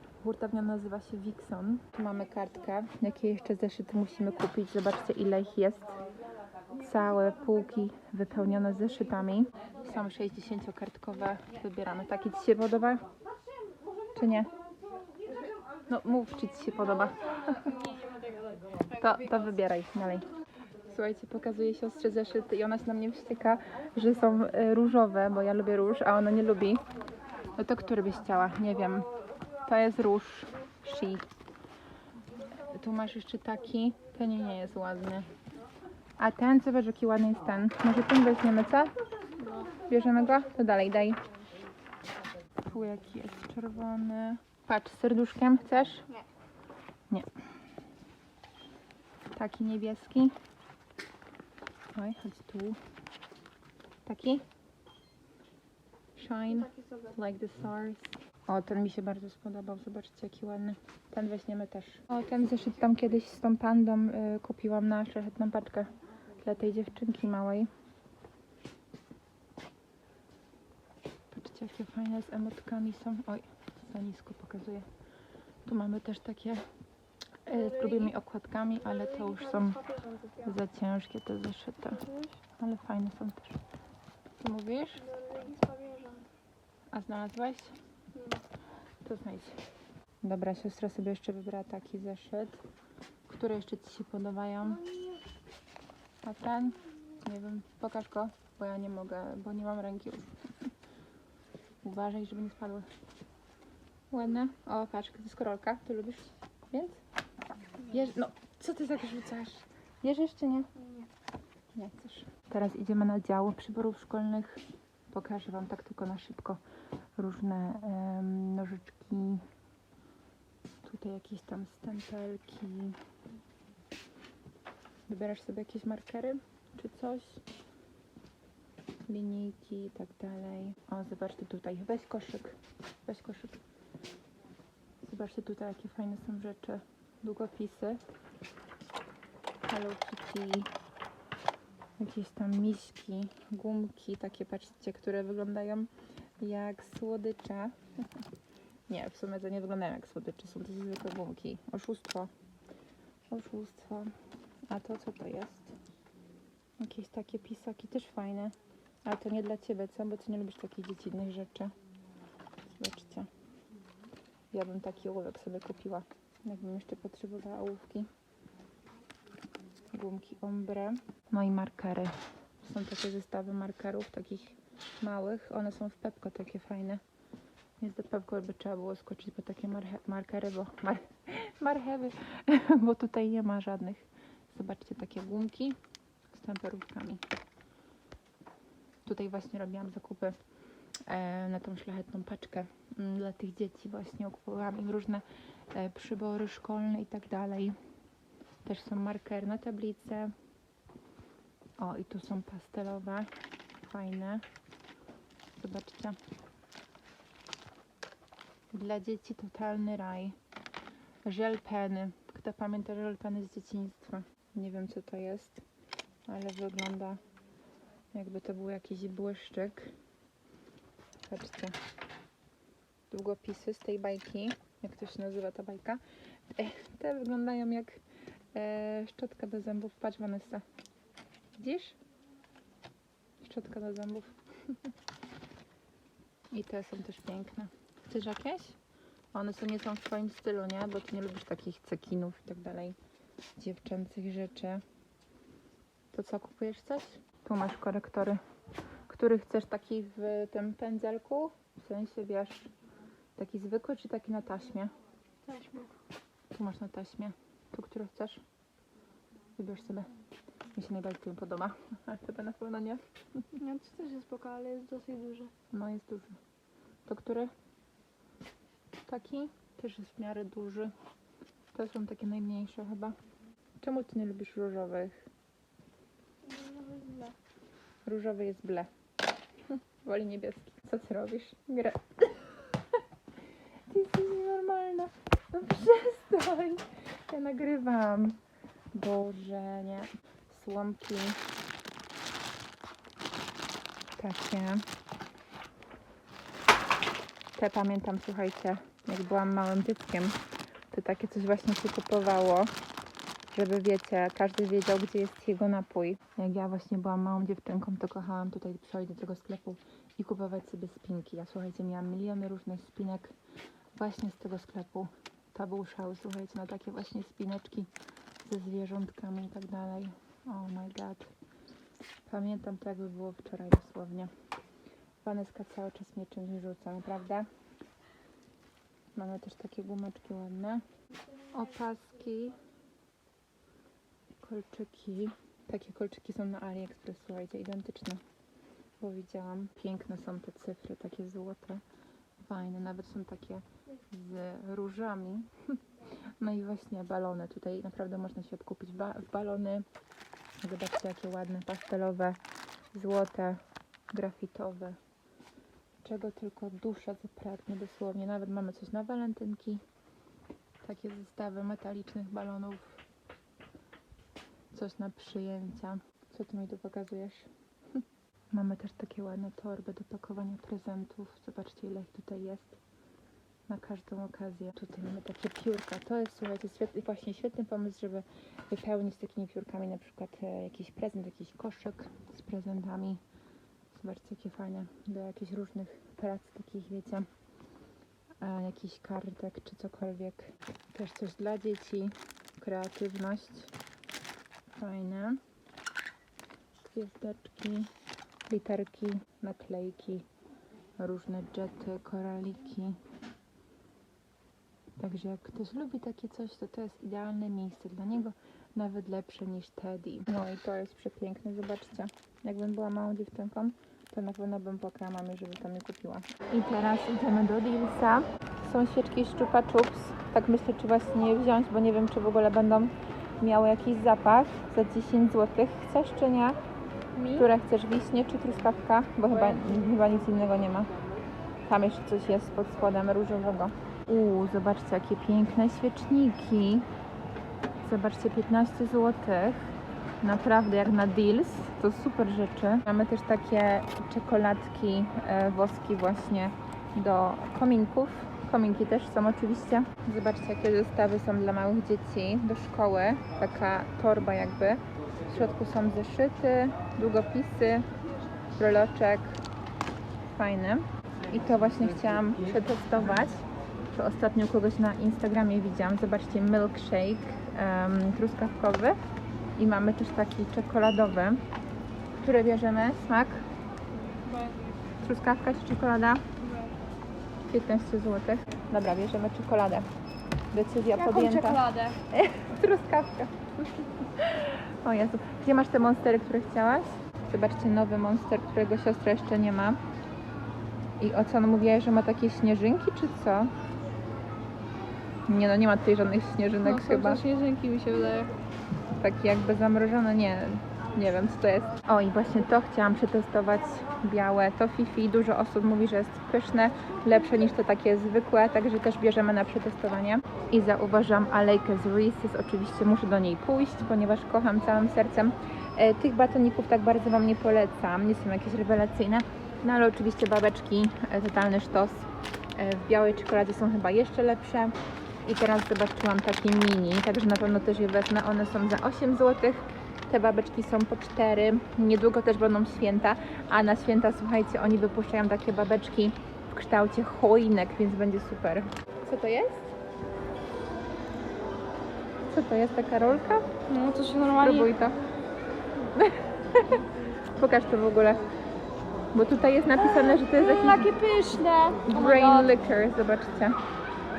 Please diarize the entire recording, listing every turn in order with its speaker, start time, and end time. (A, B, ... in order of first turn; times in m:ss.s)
0:00.2-0:06.0 A
0:06.7-0:13.0 A
0:14.1-0:14.5 A
0:15.9-0:17.8 A
0:18.9-0:20.3 A
0:20.9-0:26.8 A
0:27.6-0:29.1 A
0:29.7-0:31.2 A
0:32.5-0:35.3 A
0:36.2-0:38.9 A
0:39.4-0:39.7 B
0:39.9-0:41.2 A
0:42.6-0:46.1 A
0:49.3-0:50.3 A
0:51.9-0:52.8 A
0:54.0-0:54.4 A
0:56.2-1:07.7 A
0:56.7-0:57.0 B
1:11.3-1:14.9 A
1:15.6-1:16.6 A
1:17.4-1:19.8 A
1:17.8-1:18.1 B
1:19.1-1:20.5 B
1:20.4-1:22.0 A
1:21.9-1:22.3 B
1:22.6-1:23.6 A
1:24.4-1:25.1 A
1:25.1-1:26.2 B
1:26.9-1:27.8 A
1:28.1-1:28.4 B
1:29.0-1:29.6 A
1:30.2-1:32.6 A
1:33.3-1:34.9 A
1:36.2-1:40.4 A
1:41.8-1:42.9 A
1:44.1-1:47.0 A
1:47.8-1:50.9 A
1:51.7-1:56.6 A
1:57.2-1:59.4 A
2:00.8-2:03.0 A
2:05.1-2:07.4 A
2:09.1-2:13.6 A
2:15.0-2:18.0 A
2:19.7-2:20.7 A
2:22.0-2:27.8 A
2:28.9-2:32.3 A
2:33.3-2:34.1 A
2:34.7-2:35.8 A
2:36.8-2:38.5 A
2:39.1-2:41.7 A
2:42.7-2:43.3 A
2:44.5-2:48.1 A
2:49.9-2:57.0 A
2:57.8-3:05.8 A
3:06.3-3:07.2 A
3:09.0-3:10.4 A
3:11.1-3:17.8 A
3:18.6-3:20.3 A
3:21.8-3:23.3 A
3:23.8-3:24.4 A
3:25.6-3:26.2 A
3:28.7-3:30.4 A
3:31.2-3:35.6 A
3:36.3-3:37.2 A
3:38.1-3:39.9 A
3:41.3-3:41.8 A
3:43.1-3:48.0 A
3:48.5-3:50.6 A
3:51.6-3:52.0 A
3:53.4-3:54.9 A
3:56.5-3:58.8 A
3:59.3-4:03.0 A
4:03.6-4:04.8 A
4:06.1-4:08.4 A
4:09.1-4:12.7 A
4:13.4-4:14.9 A
4:15.4-4:15.9 B
4:16.5-4:18.4 A
4:19.6-4:20.1 A
4:20.7-4:23.4 A
4:23.6-4:25.5 B
4:25.7-4:26.4 A
4:27.1-4:27.5 A
4:29.1-4:30.9 A
4:31.7-4:33.2 A
4:33.8-4:35.2 A
4:36.4-4:37.3 B
4:38.0-4:38.9 A
4:39.7-4:43.0 A
4:43.9-4:48.4 A
4:48.9-4:51.4 A
4:54.2-4:54.8 A
4:57.6-5:00.4 A
5:00.9-5:02.7 A
5:03.5-5:13.3 A
5:13.9-5:17.9 A
5:18.4-5:21.3 A
5:22.2-5:24.3 A
5:25.2-5:27.5 A
5:29.1-5:30.8 A
5:31.5-5:32.6 A
5:34.4-5:38.2 A
5:39.0-5:41.8 A
5:42.4-5:45.5 A
5:46.4-5:49.8 A
5:50.6-5:52.4 A
5:52.9-5:55.0 A
5:56.0-5:59.8 A
6:00.8-6:03.0 A
6:04.7-6:07.5 A
6:08.5-6:12.8 A
6:13.7-6:23.2 A
6:23.9-6:27.3 A
6:28.4-6:33.7 A
6:34.7-6:35.4 A
6:36.8-6:37.9 A
6:38.5-6:40.3 A
6:41.0-6:43.0 A
6:45.0-7:06.6 A
7:07.2-7:07.4 B
7:07.3-7:10.9 A
7:11.7-7:16.9 A
7:17.8-7:37.9 A
7:38.6-7:39.4 A
7:40.3-7:49.0 A
7:49.6-7:51.4 A
7:52.2-7:53.4 A
7:54.1-7:54.7 B
7:55.0-7:56.2 A
7:56.4-7:56.7 B
7:57.5-7:59.9 A
8:00.5-8:09.8 A
8:00.9-8:02.0 B
8:11.0-8:13.5 A
8:15.3-8:17.2 A
8:16.6-8:18.3 B
8:19.0-8:44.7 A
8:45.2-8:59.7 A
9:02.3-9:03.5 A
9:03.7-9:04.9 B
9:04.4-9:05.0 A
9:05.9-9:06.8 A
9:07.4-9:08.3 A
9:09.1-9:10.9 A
9:09.8-9:12.6 B
9:11.9-9:13.6 A